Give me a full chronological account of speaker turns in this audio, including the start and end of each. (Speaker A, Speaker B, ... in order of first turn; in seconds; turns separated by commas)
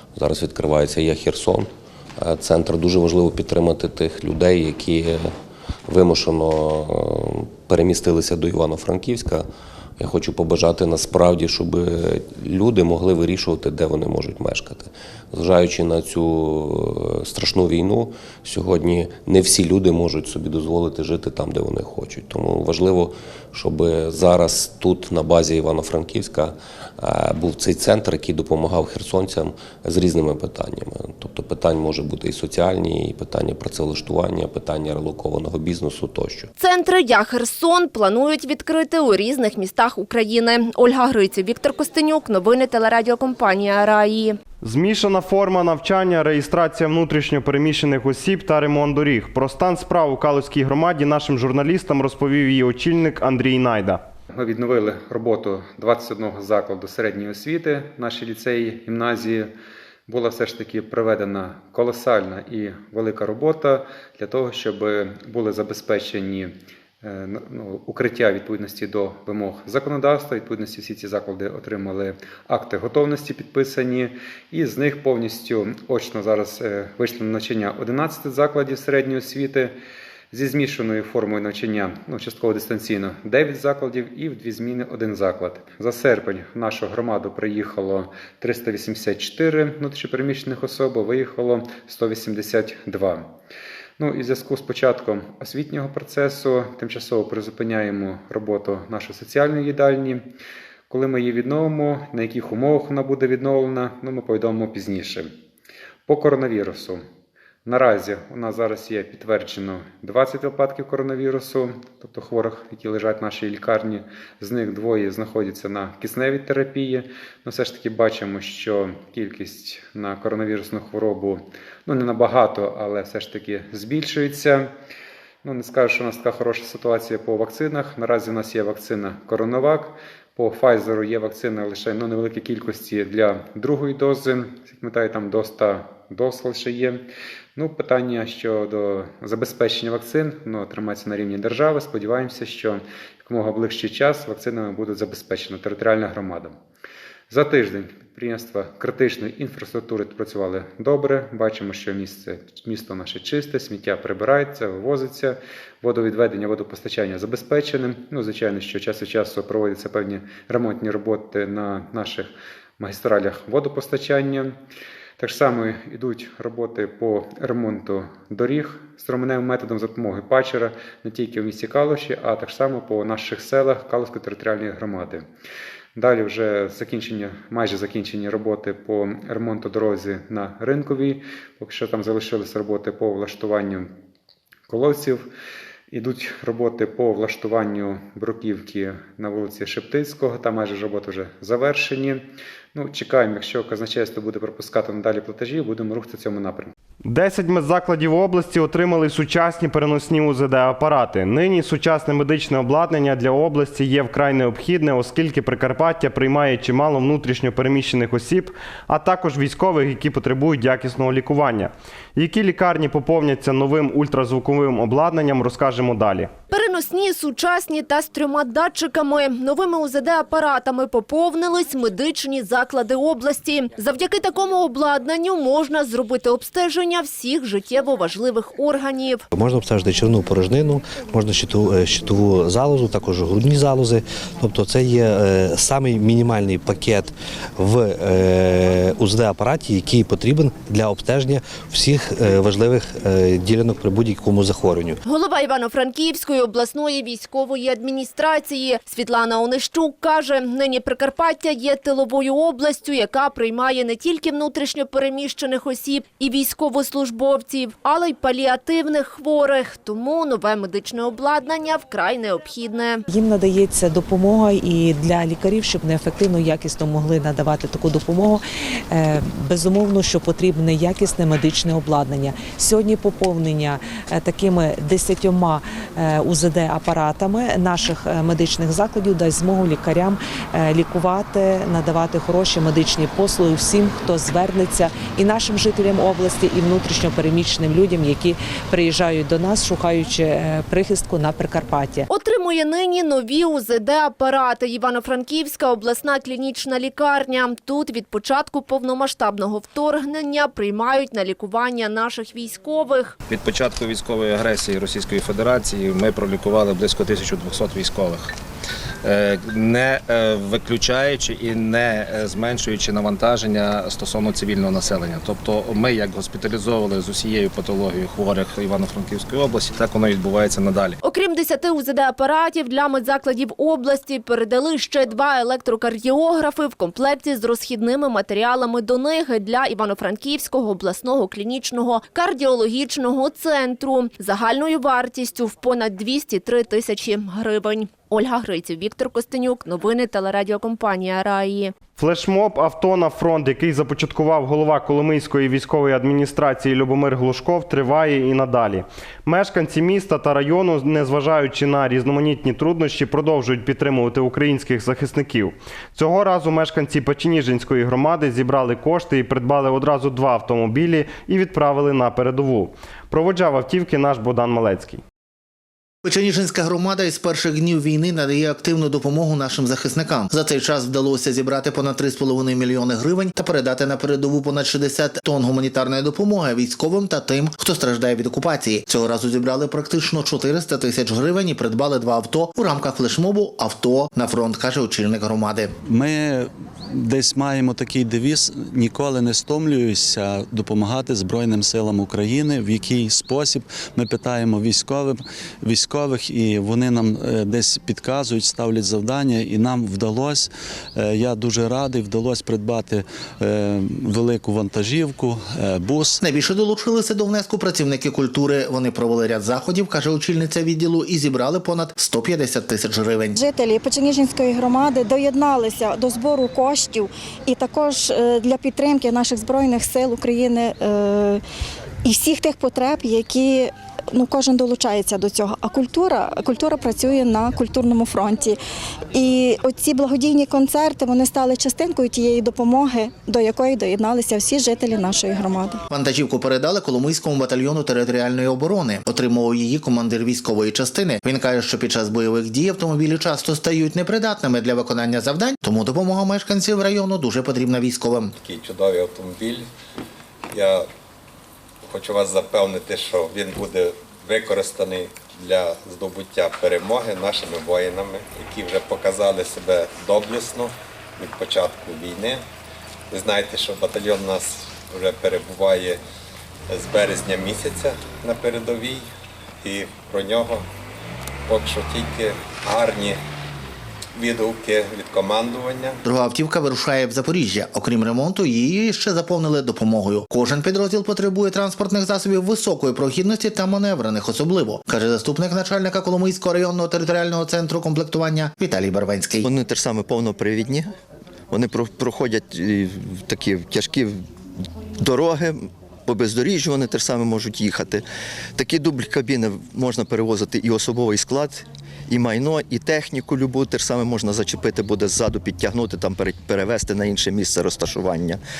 Speaker A: 0.1-5.3, Speaker A: 5.9-9.5, Speaker A: 10.0-36.5, Speaker B: 36.6-44.4, Speaker C: 44.6-54.0, Speaker D: 54.3-59.5, Speaker D: 60.1-79.7, Speaker D: 80.3-93.3, Speaker D: 94.0-100.3, Speaker D: 100.9-105.3, Speaker D: 106.1-107.0, Speaker D: 107.6-124.7, Speaker D: 125.4-146.6, Speaker D: 147.3-164.6, Speaker D: 165.2-175.3, Speaker D: 175.9-183.9, Speaker D: 184.7-185.3, Speaker D: 185.9-196.7, Speaker C: 197.1-216.3, Speaker B: 216.5-229.2, Speaker E: 229.3-245.0, Speaker B: 245.0-263.0, Speaker F: 263.1-292.1, Speaker B: 292.1-303.1, Speaker G: 303.3-308.3, Speaker G: 309.0-321.0, Speaker B: 321.0-341.7, Speaker C: 342.0-365.0, Speaker H: 366.0-385.7, Speaker I: 385.8-406.2, Speaker H: 406.2-413.4, Speaker J: 413.4-421.4, Speaker J: 422.0-428.6, Speaker J: 429.1-435.8, Speaker H: 435.9-448.3, Speaker K: 448.4-449.7, Speaker K: 450.5-450.9, Speaker K: 451.8-462.4, Speaker K: 463.1-466.0, Speaker K: 466.7-469.1, Speaker K: 469.6-470.6, Speaker K: 471.5-473.2, Speaker K: 474.1-476.0, Speaker H: 476.0-489.4, Speaker L: 489.4-490.9, Speaker L: 491.5-494.3, Speaker L: 495.0-498.0, Speaker L: 498.6-508.4